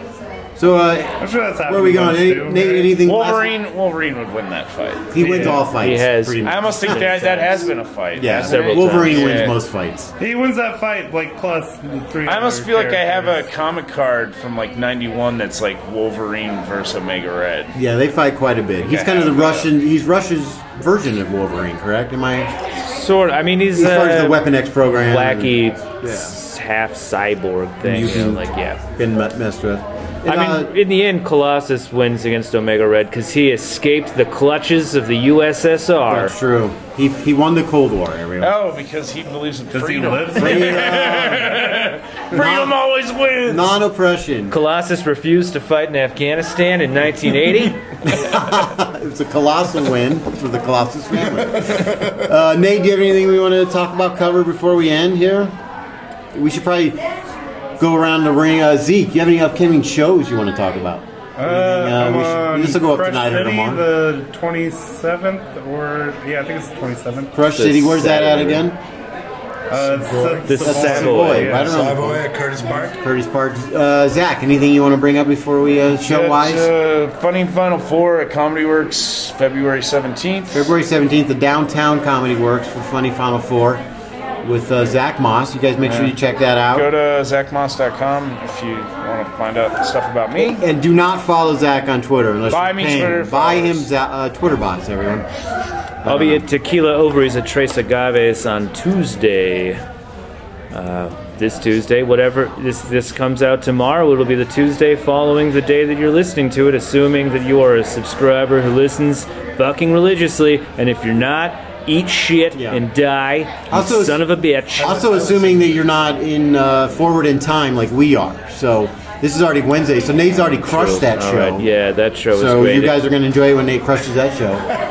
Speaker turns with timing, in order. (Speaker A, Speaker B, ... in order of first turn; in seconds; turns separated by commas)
Speaker A: 0.6-3.6, Speaker B: 1.2-3.0, Speaker C: 3.0-5.1, Speaker A: 5.1-7.3, Speaker B: 5.2-5.6, Speaker D: 5.2-7.7, Speaker C: 6.4-9.5, Speaker A: 8.2-10.1, Speaker D: 8.4-9.6, Speaker B: 10.2-13.4, Speaker C: 12.3-17.8, Speaker A: 17.7-22.5, Speaker C: 18.8-19.7, Speaker D: 22.8-24.4, Speaker A: 23.7-26.3, Speaker D: 24.9-28.8, Speaker A: 27.8-30.8, Speaker D: 30.3-36.4, Speaker A: 36.0-38.6, Speaker C: 38.4-43.7, Speaker B: 39.7-42.0, Speaker A: 40.4-41.5, Speaker A: 42.4-42.8, Speaker A: 43.5-44.5, Speaker D: 44.5-47.8, Speaker A: 48.0-55.6, Speaker A: 56.3-57.0, Speaker A: 57.8-63.9, Speaker B: 61.4-67.3, Speaker A: 67.3-68.8, Speaker D: 67.5-68.7, Speaker B: 69.7-71.8, Speaker E: 69.7-73.0, Speaker D: 70.5-71.5, Speaker A: 70.6-72.3, Speaker A: 72.9-76.7, Speaker C: 76.0-80.7, Speaker A: 80.5-83.8, Speaker A: 84.4-86.9, Speaker C: 86.7-90.7, Speaker A: 90.5-95.3, Speaker C: 92.5-93.9, Speaker A: 96.0-96.5, Speaker D: 96.0-99.8, Speaker D: 100.7-115.1, Speaker A: 112.5-112.8, Speaker A: 113.7-121.7, Speaker E: 114.8-115.9, Speaker D: 120.7-123.0, Speaker A: 122.3-124.7